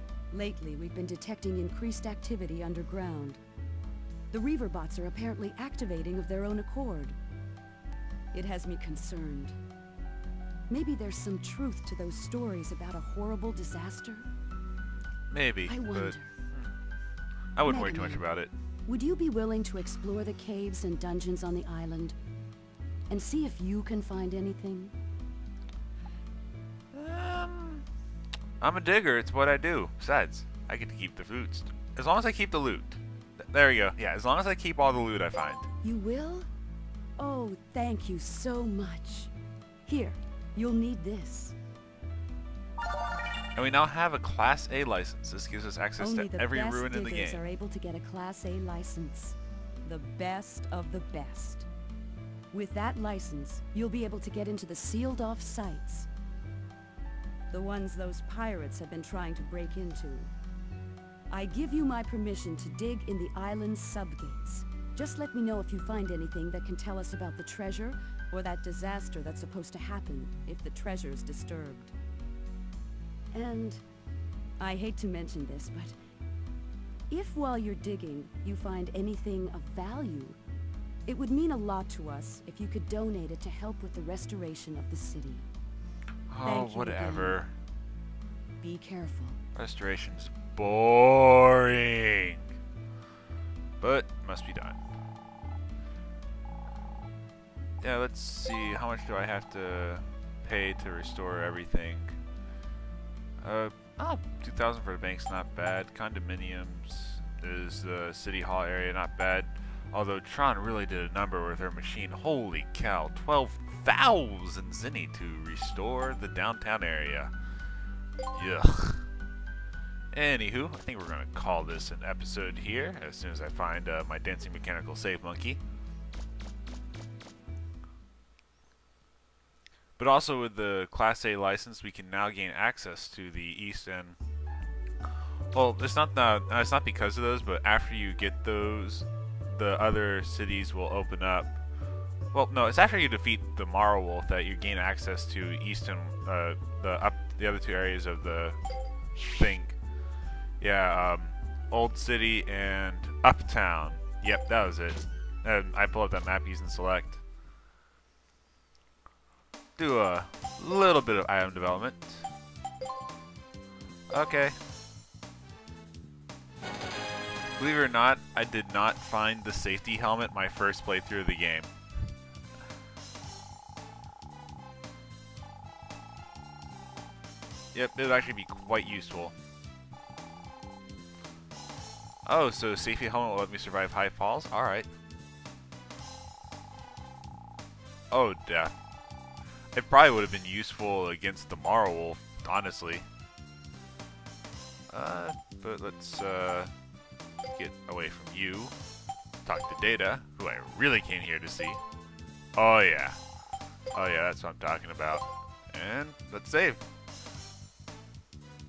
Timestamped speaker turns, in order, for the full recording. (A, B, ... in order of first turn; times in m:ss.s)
0:00.3-0:03.4 A
0:04.3-0:07.2 A
0:08.3-0:09.6 A
0:10.7-0:14.3 A
0:15.3-0:16.7 B
0:15.7-0:16.3 A
0:17.6-0:18.5 B
0:17.6-0:18.3 A
0:18.8-0:22.2 A
0:23.1-0:24.9 A
0:26.9-0:27.8 B
0:28.6-0:33.0 B
0:33.5-0:35.7 B
0:35.8-0:36.5 A
0:37.2-0:39.3 A
0:39.8-0:41.6 A
0:43.6-0:47.4 B
0:46.0-0:51.7 A
0:52.5-0:56.1 A
0:57.5-1:00.3 A
1:01.3-1:11.9 A
1:13.3-1:13.8 A
1:14.6-1:16.0 A
1:17.1-1:20.4 A
1:21.0-1:25.5 A
1:26.3-1:27.5 B
1:26.4-1:27.4 A
1:28.6-1:29.4 A
1:29.5-1:32.5 B
1:33.8-1:34.8 B
1:37.8-1:42.2 B
1:43.4-1:57.3 B
1:58.3-1:59.0 B
2:00.1-2:05.6 B
2:10.0-2:14.2 B
2:15.5-2:21.6 B
2:22.3-2:28.6 B
2:29.2-2:29.8 B
2:30.6-2:37.2 B
2:39.8-2:42.3 B
2:44.1-2:44.5 B
2:47.6-2:51.7 B
2:57.7-2:59.3 B
3:02.2-3:04.9 B
3:08.1-3:08.7 B
3:09.7-3:13.0 B
3:14.9-3:16.7 B
3:17.5-3:18.7 B
3:19.4-3:21.8 B
3:22.6-3:23.2 B
3:23.9-3:26.8 B